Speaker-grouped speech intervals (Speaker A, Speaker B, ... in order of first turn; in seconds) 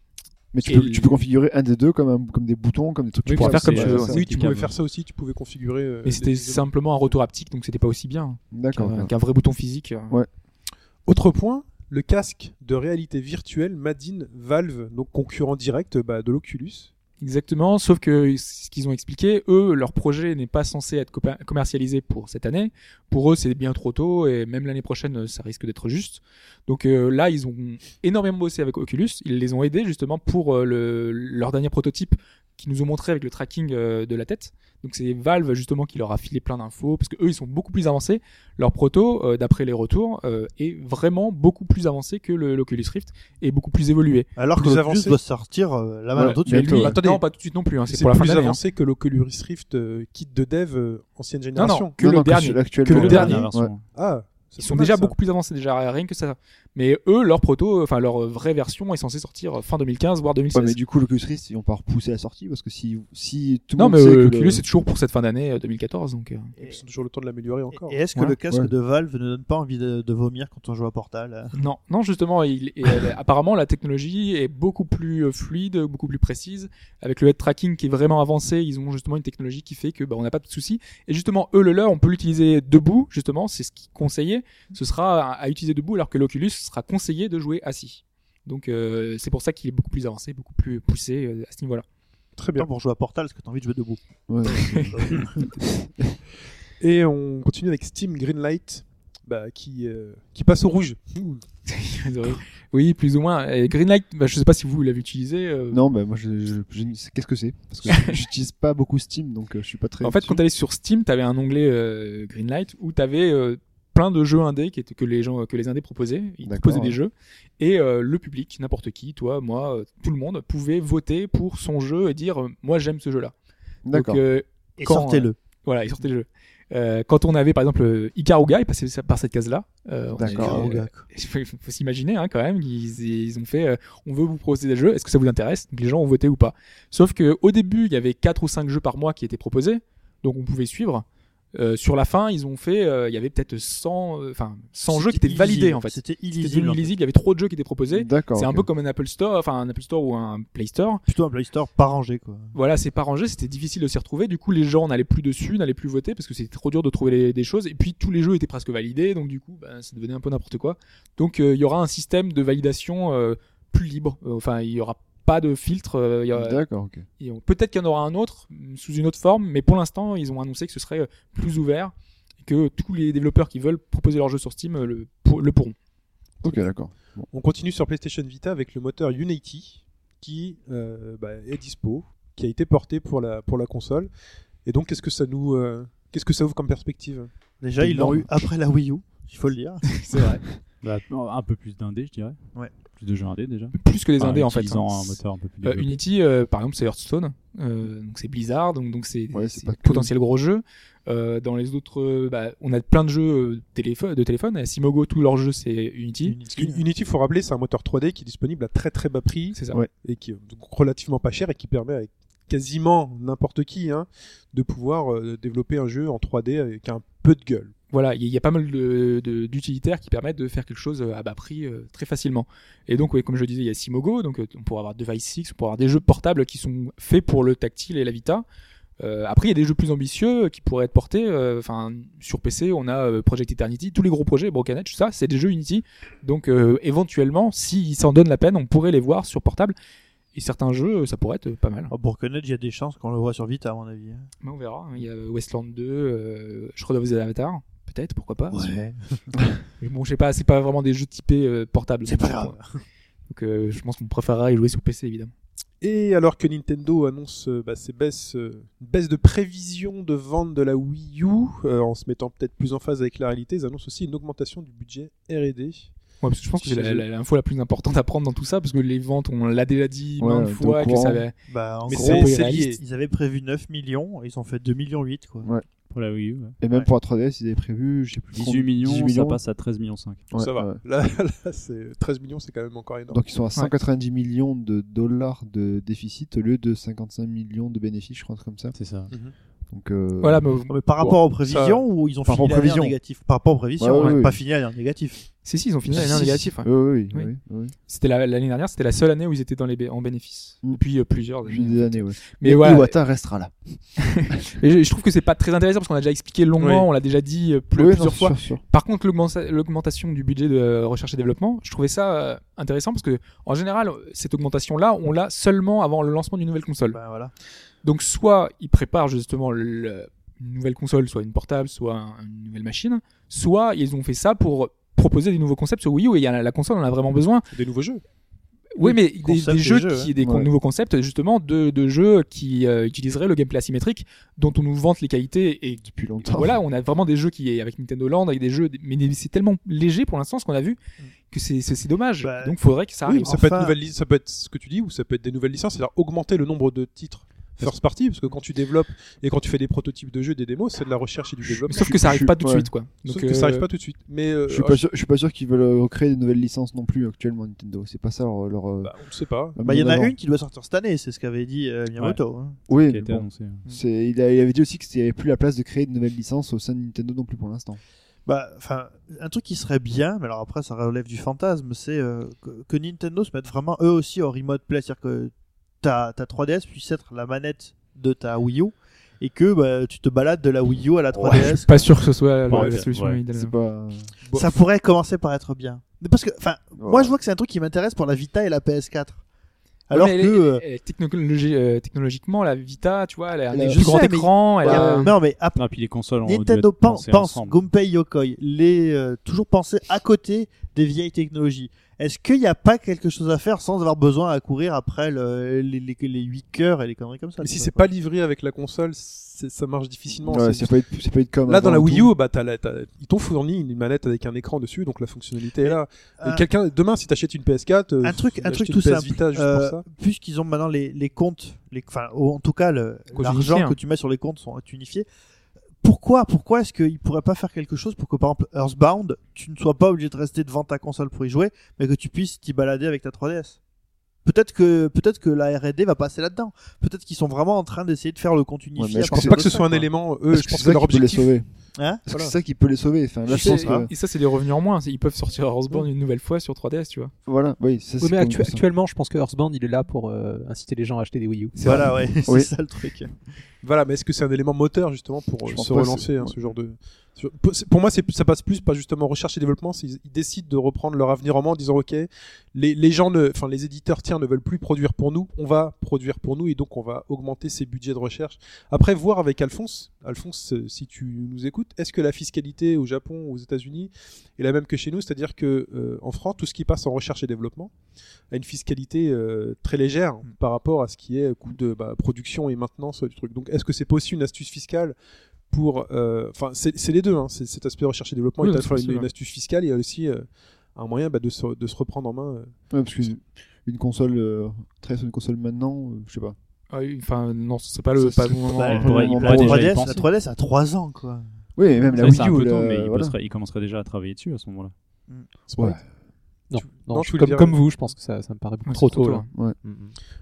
Speaker A: 0.5-4.2, 8.5-9.1, 46.2-47.0, 52.0-53.7, 60.5-64.6, 94.3-96.2, 105.7-110.4, 116.4-117.0, 123.8-124.2, 130.2-130.7, 147.9-148.7, 166.3-167.0, 176.4-177.2, 187.8-188.2, 199.3-200.1, 270.2-271.2, 276.6-279.4, 280.3-280.8, 283.1-288.8, 289.7-290.5, 292.2-292.9, 293.8-294.4, 295.9-297.7, 301.4-304.4, 307.7-308.6, 330.2-330.5, 335.8-336.6, 351.8-352.7, 354.5-358.9, 359.5-360.1, 362.7-367.8, 382.5-384.1, 386.8-387.1, 393.5-393.9, 394.6-395.1, 410.2-412.1, 438.8-439.4, 440.3-441.4, 442.1-443.9, 447.2-448.6, 455.4-456.3, 492.7-496.4, 498.0-500.0, 501.6-503.1
Speaker B: 0.6-1.2, 3.3-4.6, 6.0-10.2, 17.2-44.3, 46.2-48.6, 51.5-53.4, 54.6-60.8, 63.8-66.5, 71.5-91.8, 94.5-94.9, 101.7-105.8, 107.9-108.1, 110.0-123.3, 123.9-151.0, 152.5-166.6, 167.2-175.7, 189.9-190.4, 193.7-206.3, 209.5-209.8, 217.9-228.4, 229.0-239.7, 240.3-241.9, 244.4-248.7, 249.8-252.6, 253.3-255.3, 266.2-271.3, 271.9-272.7, 290.2-290.7, 295.4-297.3, 297.9-302.9, 304.0-317.0, 317.8-327.4, 328.8-340.8, 341.3-343.3, 351.6-353.7, 381.3-383.5, 389.9-395.1, 423.1-423.8, 443.3-447.1, 488.4-489.1, 496.7-499.4, 508.6-509.2
Speaker C: 3.3-4.8, 52.9-53.9, 190.8-192.4, 192.9-196.0, 275.9-276.6, 278.3-280.3, 288.7-289.1, 362.8-363.6, 382.5-383.2, 395.5-397.6, 498.8-500.0, 502.0-504.7
Speaker D: 3.7-7.1, 11.1-16.9, 44.5-45.2, 46.7-47.3, 47.9-51.9, 53.0-55.1, 66.6-68.0, 92.4-92.7, 96.8-101.4, 177.3-184.1, 184.6-187.3, 206.5-217.7, 255.8-265.9, 266.6-267.0, 271.9-272.8, 280.3-283.2, 291.4-291.8, 306.6-306.9, 327.5-328.0, 343.1-352.2, 353.0-354.8, 358.8-359.6, 407.4-410.7, 411.4-419.8, 439.1-441.4, 453.6-477.7, 478.3-484.9, 485.5-492.5, 505.5-505.8, 506.8-507.8
Speaker E: 44.4-46.9, 67.7-71.5, 92.5-95.5, 124.8-125.3, 130.2-131.0, 144.9-146.9, 151.1-152.5, 187.6-190.2, 206.2-206.8, 241.9-244.3, 248.5-249.0, 252.0-252.6, 271.5-275.5, 290.7-295.3, 316.9-317.3, 328.8-330.1, 342.2-342.6, 343.2-343.8, 359.6-362.6, 368.2-381.9, 384.3-389.2, 389.9-390.6, 393.5-407.9, 415.6-416.5, 418.0-425.1, 425.8-433.6, 434.2-439.9, 441.8-442.1, 443.3-443.9, 451.6-453.1, 498.5-501.2
Speaker F: 448.0-451.8, 506.5-510.0